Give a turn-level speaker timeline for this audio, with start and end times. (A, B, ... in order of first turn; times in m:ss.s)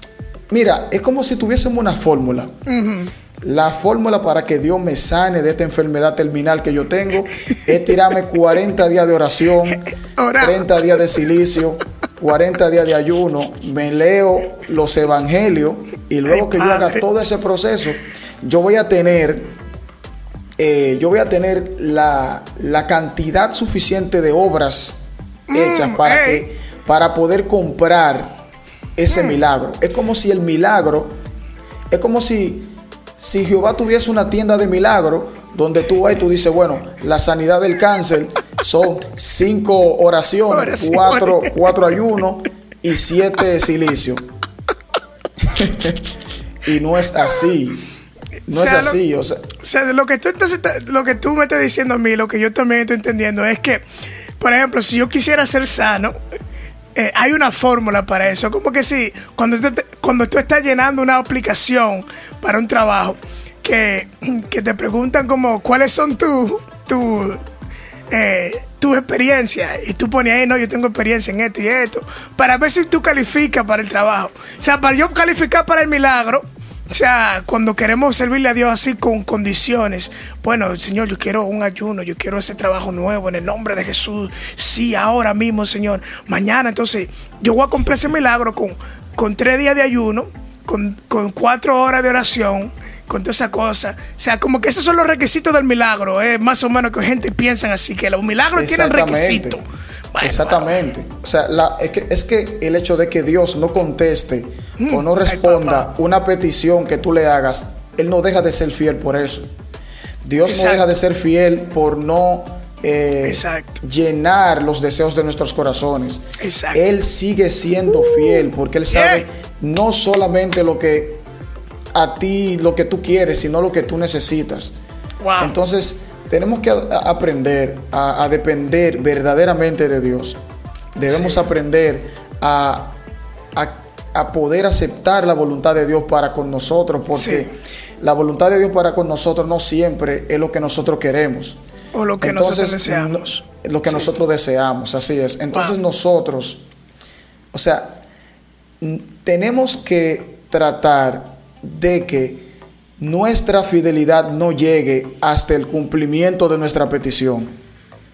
0:00.5-0:02.5 A
0:02.6-0:03.1 B
0:03.4-0:19.5 A
0:10.2-0:11.0 B
0:16.3-0:17.0 B
0:20.6-0:28.4 A
0:25.5-0:26.4 B
0:29.0-0:31.2 A
0:31.9-0:44.2 A
0:40.5-0:41.5 B
0:45.4-0:46.0 A
0:46.6-0:47.8 A
0:48.5-0:49.5 A
0:48.5-0:49.0 B
0:49.6-0:53.8 B
0:54.4-0:56.1 B
0:56.9-1:07.4 B
1:08.1-1:40.7 B
1:38.5-1:39.6 A
1:40.2-1:49.5 A
1:44.8-1:45.8 B
1:50.2-2:01.2 A
1:50.4-1:50.8 B
1:53.2-1:53.8 B
1:56.4-1:56.8 B
1:57.9-1:59.2 B
2:01.9-2:04.7 A
2:05.2-2:05.6 B
2:05.4-2:10.4 A
2:10.9-2:13.0 A
2:11.1-2:11.4 B
2:13.5-2:21.6 A
2:17.1-2:17.5 B
2:21.9-2:24.1 B
2:22.2-2:26.6 A
2:25.5-2:25.8 B
2:27.5-2:28.0 A
2:28.8-2:32.5 A
2:33.0-2:37.6 A